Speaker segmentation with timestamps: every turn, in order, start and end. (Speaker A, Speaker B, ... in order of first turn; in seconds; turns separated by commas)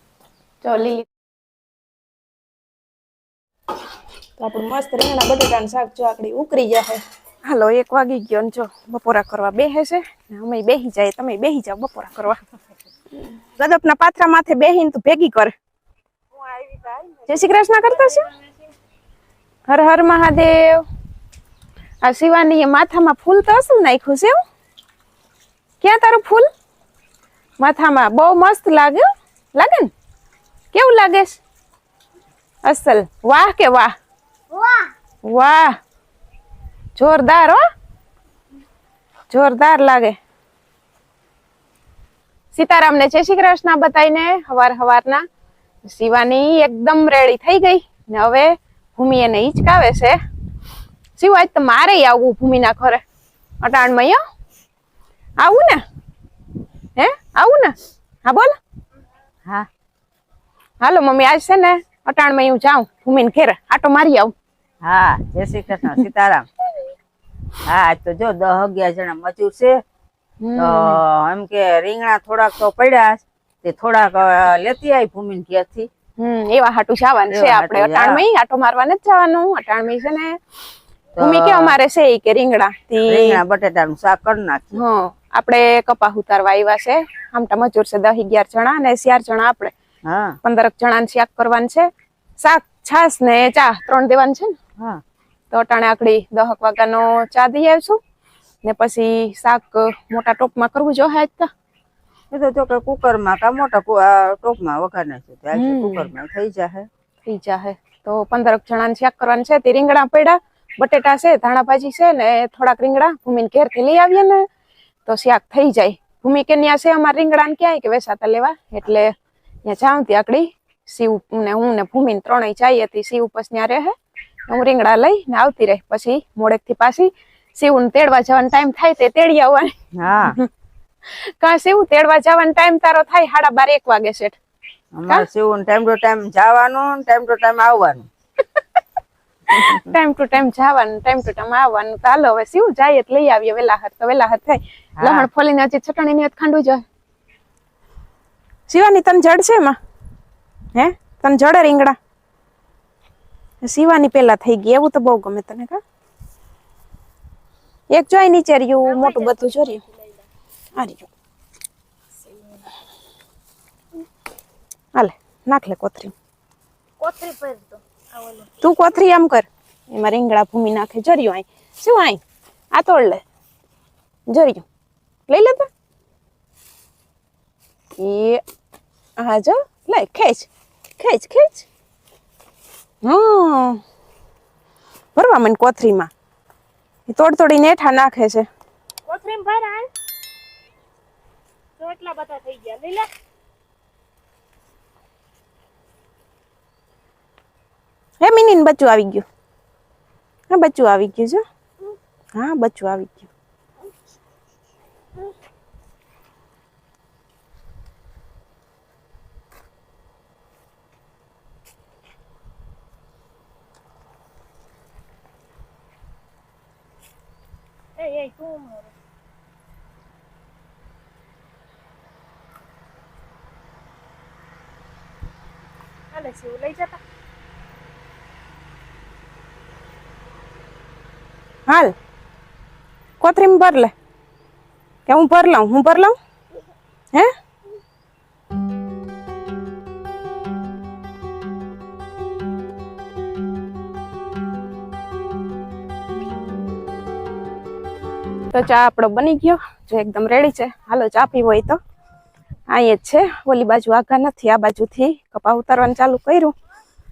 Speaker A: 0.6-1.1, Speaker A: 4.4-12.4, Speaker A: 13.2-15.5, Speaker B: 16.3-17.3, Speaker A: 17.3-18.3, Speaker B: 18.2-18.6, Speaker A: 19.7-20.8, Speaker A: 22.0-24.4, Speaker A: 25.8-26.5, Speaker A: 27.6-29.9, Speaker A: 30.7-31.4, Speaker A: 32.6-33.9, Speaker A: 35.3-35.8, Speaker A: 37.0-37.6, Speaker A: 39.3-40.2, Speaker A: 42.5-45.2, Speaker A: 45.9-50.2, Speaker A: 51.2-53.0, Speaker A: 53.6-54.2, Speaker A: 55.4-55.8, Speaker A: 57.0-57.7, Speaker A: 58.2-58.5, Speaker A: 60.8-64.3, Speaker C: 64.8-66.5, Speaker C: 67.6-69.8, Speaker A: 70.4-71.0, Speaker C: 70.6-75.9, Speaker A: 76.2-80.4, Speaker C: 77.3-78.2, Speaker C: 81.2-81.8, Speaker A: 81.2-83.4, Speaker C: 83.1-84.8, Speaker A: 84.7-89.7, Speaker C: 90.1-90.4, Speaker A: 90.4-91.9, Speaker A: 92.4-94.5, Speaker A: 95.5-98.0, Speaker A: 98.6-101.5, Speaker C: 102.3-106.9, Speaker A: 105.5-106.1, Speaker A: 107.2-114.4, Speaker A: 115.1-119.1, Speaker A: 119.7-123.9, Speaker A: 124.5-130.5, Speaker C: 129.9-130.4, Speaker A: 131.1-134.4, Speaker C: 134.9-138.1, Speaker A: 139.5-146.8, Speaker C: 145.0-145.3, Speaker A: 148.7-149.8, Speaker A: 150.7-152.0, Speaker A: 153.6-155.8, Speaker A: 157.9-159.8, Speaker B: 158.9-160.2, Speaker A: 160.8-161.1, Speaker B: 162.2-162.6, Speaker A: 164.9-166.1, Speaker B: 167.0-168.6, Speaker A: 168.6-172.2, Speaker A: 172.7-173.2, Speaker A: 174.3-174.7, Speaker A: 175.3-175.7, Speaker A: 178.0-178.4, Speaker A: 179.2-181.7, Speaker A: 183.0-183.8, Speaker A: 185.1-186.1, Speaker A: 187.1-188.4, Speaker B: 189.1-189.9, Speaker B: 191.8-193.1, Speaker A: 198.2-199.2, Speaker A: 200.5-201.4, Speaker A: 202.3-203.3, Speaker B: 218.0-218.9, Speaker B: 226.1-227.0, Speaker A: 231.7-231.9, Speaker A: 233.2-233.9, Speaker A: 235.1-236.1, Speaker A: 248.5-251.8, Speaker A: 252.7-256.5